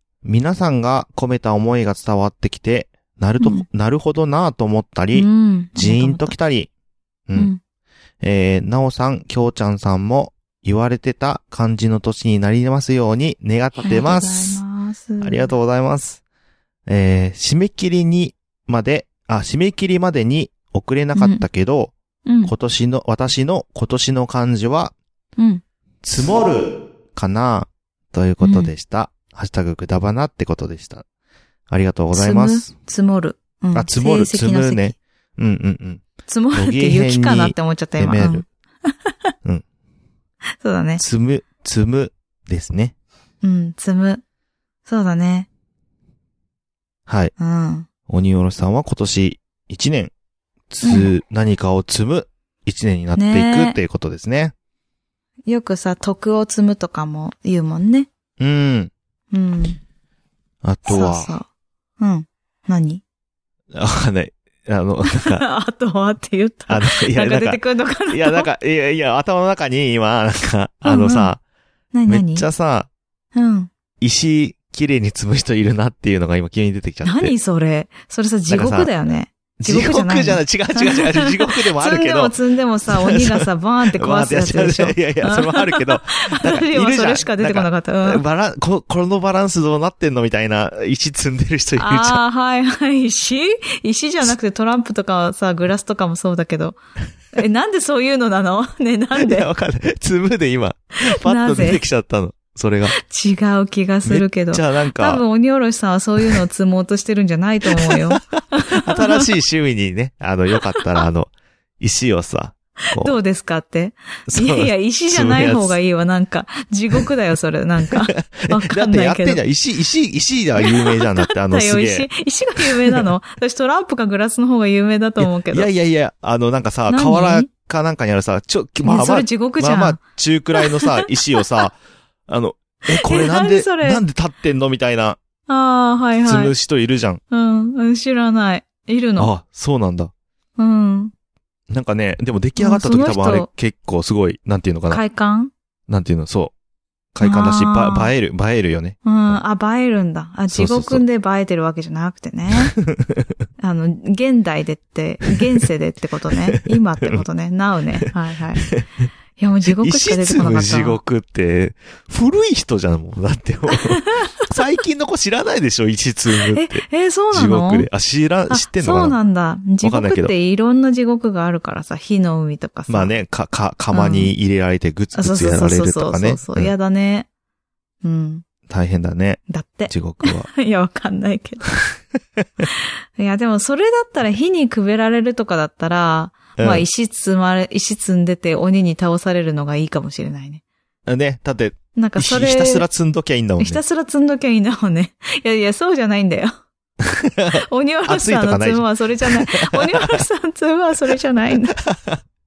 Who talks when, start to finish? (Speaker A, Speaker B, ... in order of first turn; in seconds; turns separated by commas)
Speaker A: 0.2-6.7, Speaker B: 3.4-3.7, Speaker B: 5.1-6.4, Speaker A: 8.2-14.6, Speaker B: 13.8-15.5, Speaker A: 15.2-16.2, Speaker A: 16.9-21.9, Speaker B: 21.1-21.4, Speaker B: 22.3-22.5, Speaker A: 22.4-24.9, Speaker B: 25.4-25.6, Speaker A: 26.0-31.0, Speaker B: 28.4-28.7, Speaker A: 31.7-32.7, Speaker B: 32.1-35.0, Speaker A: 33.7-38.5, Speaker B: 36.3-39.1, Speaker B: 40.6-41.0, Speaker A: 41.0-42.9, Speaker B: 43.4-44.2, Speaker B: 44.9-45.5, Speaker A: 47.1-47.3, Speaker B: 47.4-47.9, Speaker A: 48.1-50.1, Speaker A: 50.7-54.5, Speaker B: 50.8-51.1, Speaker B: 53.1-53.8, Speaker B: 55.5-58.1, Speaker A: 58.4-58.9, Speaker B: 59.3-59.8, Speaker A: 60.6-61.3, Speaker B: 60.9-61.5, Speaker B: 62.0-63.0, Speaker A: 63.7-65.4, Speaker B: 65.0-68.5, Speaker A: 66.7-71.4, Speaker B: 70.8-71.3, Speaker B: 71.9-72.5, Speaker A: 72.1-72.9, Speaker B: 73.3-73.7, Speaker A: 74.0-77.3, Speaker B: 77.0-88.2, Speaker A: 78.5-78.9, Speaker A: 79.6-82.3, Speaker A: 82.9-92.2, Speaker B: 91.8-96.8, Speaker B: 97.3-99.5, Speaker A: 99.2-103.0, Speaker B: 101.0-101.8, Speaker B: 103.0-109.3, Speaker A: 104.0-105.2, Speaker A: 107.7-108.2, Speaker A: 108.7-113.2, Speaker B: 110.8-111.0, Speaker B: 112.9-119.4, Speaker A: 114.3-115.8, Speaker A: 117.9-122.1, Speaker B: 120.6-125.7, Speaker A: 122.6-123.1, Speaker A: 125.2-131.8, Speaker B: 126.9-127.5, Speaker B: 128.8-130.0, Speaker B: 130.6-131.7, Speaker A: 132.3-135.2, Speaker B: 132.9-134.0, Speaker B: 135.5-136.5, Speaker A: 136.2-137.2, Speaker B: 137.3-139.3, Speaker A: 139.2-140.1, Speaker B: 140.6-141.1, Speaker A: 141.7-145.0, Speaker B: 142.6-143.5, Speaker B: 144.9-145.5, Speaker A: 145.9-146.5, Speaker A: 147.1-149.4, Speaker B: 147.2-148.1, Speaker B: 149.1-152.8, Speaker A: 150.5-151.0, Speaker A: 152.8-153.2, Speaker B: 153.6-158.7, Speaker A: 156.5-157.2, Speaker B: 159.4-161.0, Speaker A: 159.7-169.2, Speaker B: 166.5-167.9, Speaker B: 168.5-173.1, Speaker A: 169.8-170.3, Speaker A: 172.9-176.7, Speaker B: 173.9-174.3, Speaker B: 175.1-177.3, Speaker B: 178.0-178.4, Speaker A: 178.7-180.5, Speaker B: 179.5-181.7, Speaker B: 183.2-190.6, Speaker A: 186.6-186.8, Speaker A: 191.1-193.8, Speaker B: 192.0-192.9, Speaker B: 193.6-196.5, Speaker A: 197.1-200.2, Speaker B: 197.5-201.8, Speaker A: 201.9-202.2